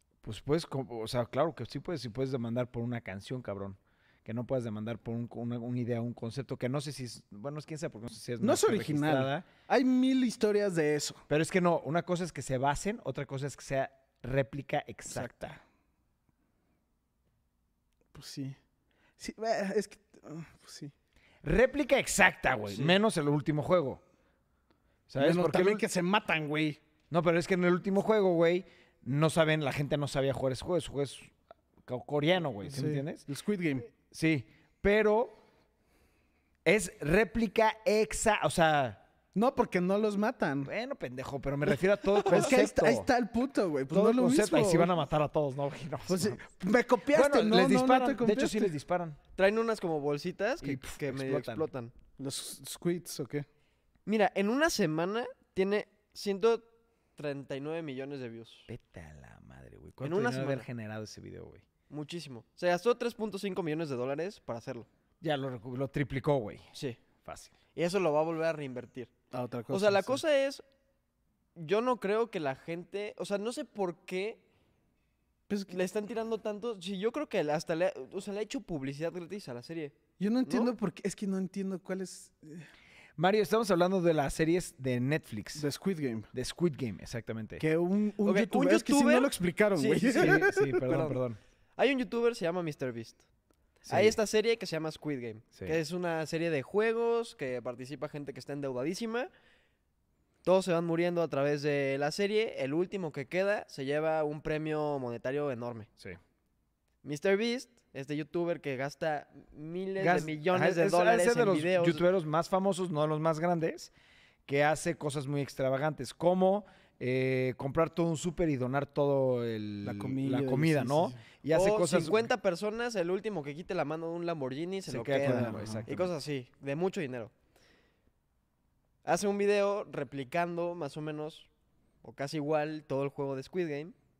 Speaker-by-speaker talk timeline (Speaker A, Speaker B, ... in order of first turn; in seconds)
Speaker A: 0.2-9.4, 11.3-15.6, 21.4-24.0, 25.1-25.8, 27.1-31.3, 31.9-33.2, 34.1-35.4, 36.6-39.0, 40.6-43.1, 43.9-46.4, 47.1-49.2, 50.6-51.7, 58.7-61.6, 65.2-66.7, 67.2-67.5, 83.2-85.7, 86.3-87.7, 90.2-91.4, 93.9-94.2, 110.0-113.9, 114.5-122.3, 124.9-126.1
Speaker B: 8.4-11.2, 15.1-15.6, 18.1-18.6, 19.2-20.9, 25.2-26.8, 32.6-33.9, 39.4-40.7, 42.3-44.9, 46.1-48.7, 52.2-53.5, 69.3-70.2, 75.5-75.8, 80.2-82.7, 85.5-86.3, 87.6-91.0, 119.8-121.2, 125.2-125.9
Speaker C: 49.4-51.9, 54.1-56.6, 57.2-58.7, 60.0-60.7, 61.9-64.9, 66.8-67.0, 67.7-69.1, 69.7-70.6, 71.6-74.4, 75.7-80.7, 88.2-91.2, 91.8-93.2, 93.9-99.3, 100.4-105.9, 107.0-112.0, 121.5-127.3, 129.1-131.5, 132.0-133.9